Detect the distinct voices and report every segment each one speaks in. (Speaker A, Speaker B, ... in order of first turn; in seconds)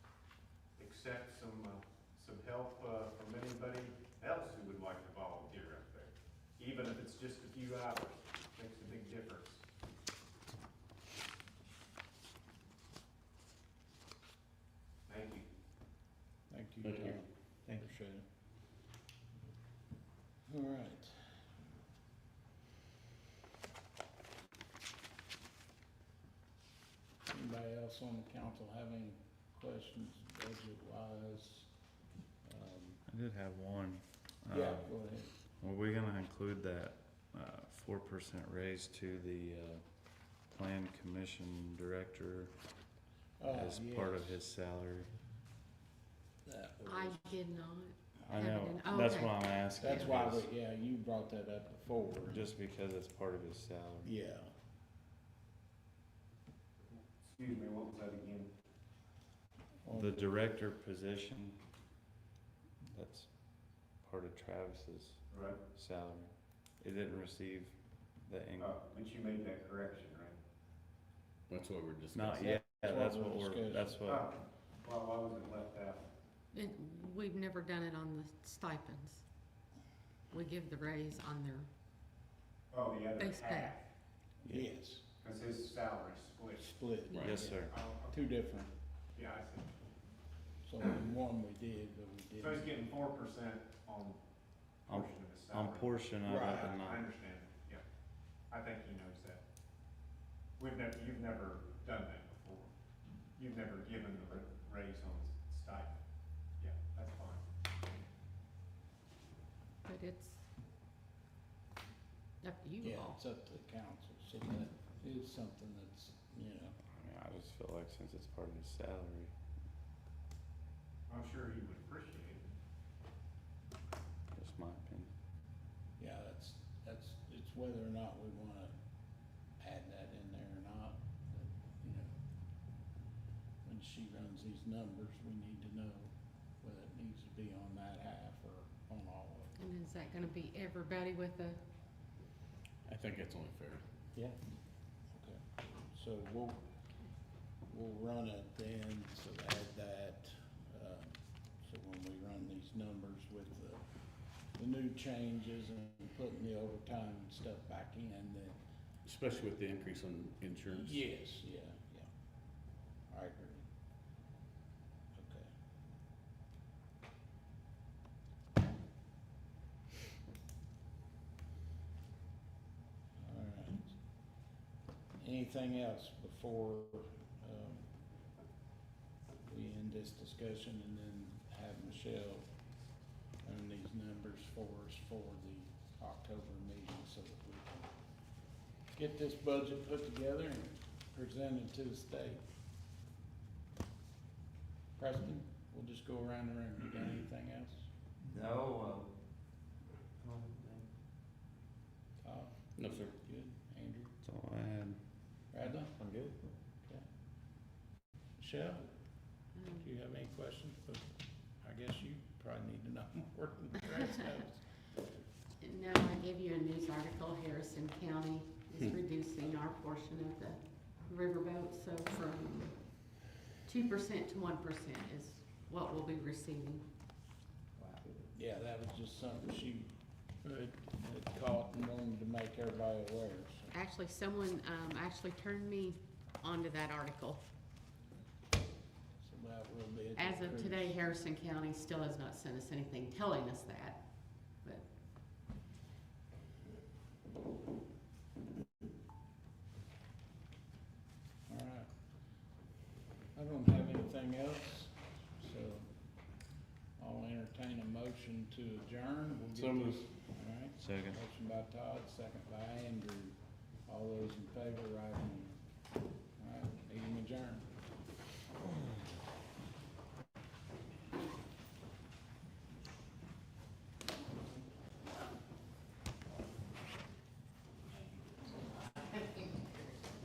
Speaker A: 0.8-9.7, 15.1-15.5, 57.2-58.5, 65.3-65.6, 68.6-70.4, 74.0-76.1, 82.7-83.8, 85.2-86.7, 87.6-88.2, 89.2-89.7, 92.4-94.2, 94.9-97.8, 98.5-99.4, 100.6-102.7, 103.4-106.0, 106.6-107.5, 121.1-122.5
Speaker B: 16.5-18.2, 20.5-21.4, 27.3-31.7, 32.5-33.0, 34.5-35.3, 43.4-44.4, 46.5-47.4, 49.8-52.5, 54.0-54.5, 59.9-60.4, 72.3-74.0, 84.5-85.2, 86.6-88.7, 90.7-92.8, 96.2-96.8, 112.8-116.8, 126.0-128.8, 129.6-132.1, 133.7-139.5, 145.1-146.6, 147.7-153.8, 154.6-158.6, 160.8-162.1, 163.1-163.7, 165.2-165.5, 173.2-174.0, 175.2-177.9, 179.5-182.5, 183.4-187.9, 188.9-192.4, 195.0-197.9, 202.2-204.2, 205.5-206.0, 208.4-208.9, 209.7-211.1, 211.6-214.6, 228.3-229.9, 230.4-233.7, 239.2-241.0, 251.5-251.9, 253.3-255.9, 257.0-265.6, 266.4-267.7
Speaker C: 16.8-17.2, 71.5-72.5, 87.1-87.5, 142.9-143.8, 159.1-161.1, 202.8-203.2
Speaker D: 33.1-34.9, 35.6-39.9, 40.4-42.5, 43.5-45.1, 48.3-50.5, 52.3-54.1, 59.9-61.6, 62.9-68.7, 72.1-74.3, 87.2-87.7, 94.9-97.1, 116.9-119.3, 124.3-125.1, 198.3-199.0, 200.2-200.8, 204.2-205.0, 205.9-206.4, 259.6-260.1, 260.8-261.2
Speaker E: 46.9-50.2, 76.5-79.2, 80.3-81.7, 83.2-83.8, 109.9-110.4, 112.4-113.2, 139.6-141.6, 209.6-209.9, 215.6-223.1, 223.6-226.8, 233.7-237.4, 240.2-244.0, 279.1-279.7